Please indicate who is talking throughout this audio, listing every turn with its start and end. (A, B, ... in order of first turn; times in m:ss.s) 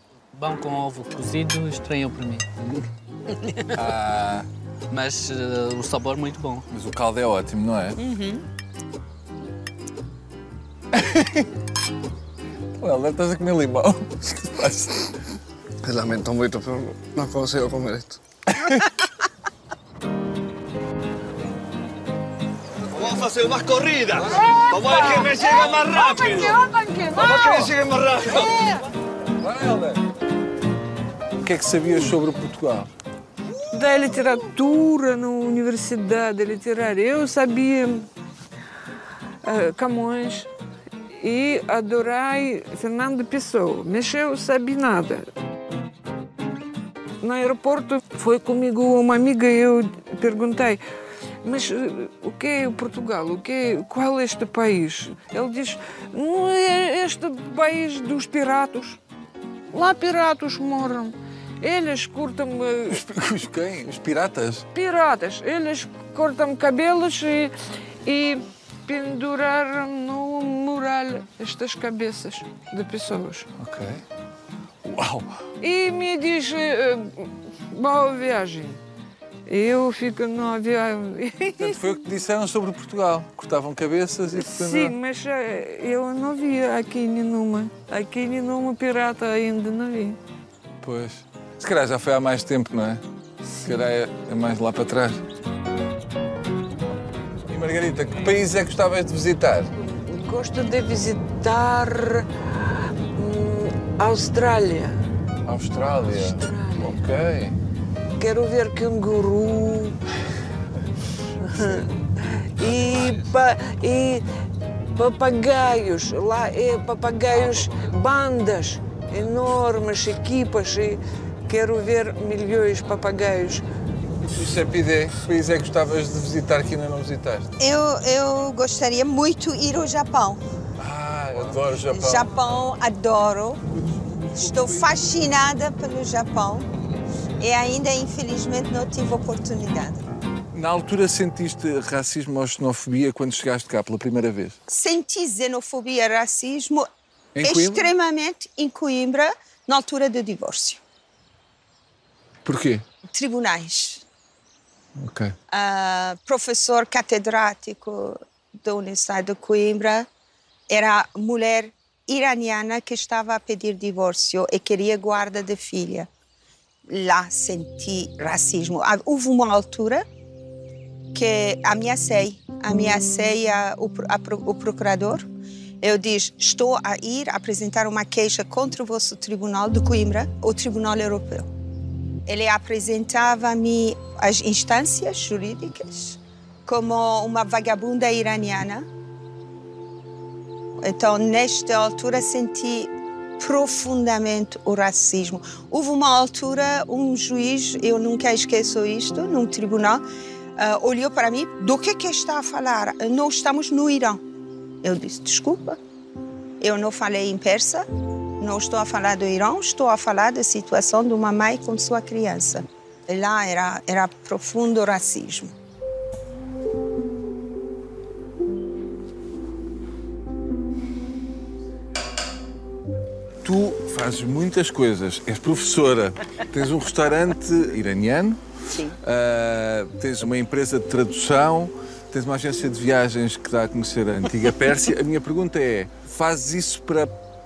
0:00.3-0:02.4 A
0:03.7-0:04.5 B
0:04.9-0:06.6 A
0:06.7-0:08.0 B
0:08.0-0:08.4 C
0:10.9-0:11.4 B
0:12.8-0:15.2 B
0:15.8-0:18.2 D
0:18.5-0:18.9 B
0:22.9-0:28.7 D
0:24.2-0:24.6 B
0:24.3-0:27.7 E
0:28.3-0:28.8 E
0:29.4-0:30.0 B
0:31.4-0:32.9 B
0:33.7-0:38.1 E
0:39.4-0:40.5 E
0:41.2-0:45.2 E
0:47.2-0:50.8 E
0:51.4-0:59.0 E
0:59.7-1:03.0 E
1:02.9-1:04.6 B
1:04.7-1:07.5 E
1:08.0-1:13.5 E
1:13.6-1:14.0 B
1:14.8-1:15.4 B
1:15.6-1:18.8 E
1:19.4-1:21.9 E
1:21.6-1:25.0 B
1:24.3-1:30.2 E
1:30.8-1:33.0 B
1:33.5-1:33.8 E
1:33.6-1:35.2 B
1:37.5-1:39.7 B
1:39.8-1:42.3 E
1:43.1-1:45.0 E
1:45.4-1:47.6 B
1:46.1-1:47.0 E
1:48.2-1:50.0 E
1:51.4-1:54.2 E
1:52.8-1:53.3 D
1:54.9-2:03.6 E
1:57.3-1:57.9 D
2:04.2-2:07.5 B
2:07.6-2:10.4 C
2:10.8-2:12.4 B
2:11.8-2:13.6 C
2:14.3-2:16.7 C
2:17.4-2:20.0 C
2:20.5-2:24.6 B
2:24.7-2:26.9 C
2:27.3-2:27.9 B
2:27.4-2:30.8 C
2:32.4-2:32.8 B
2:33.1-2:34.0 C
2:35.0-2:35.3 B
2:35.5-2:40.1 C
2:40.7-2:46.1 C
2:46.9-2:50.0 C
2:51.1-2:55.3 C
2:55.8-3:01.5 C
3:02.2-3:08.8 C
3:10.8-3:20.0 C
3:20.6-3:24.2 C
3:24.8-3:25.8 C
3:26.6-3:27.8 C
3:28.4-3:35.5 C
3:43.4-3:48.4 B
3:48.7-3:49.0 C
3:49.0-3:57.1 B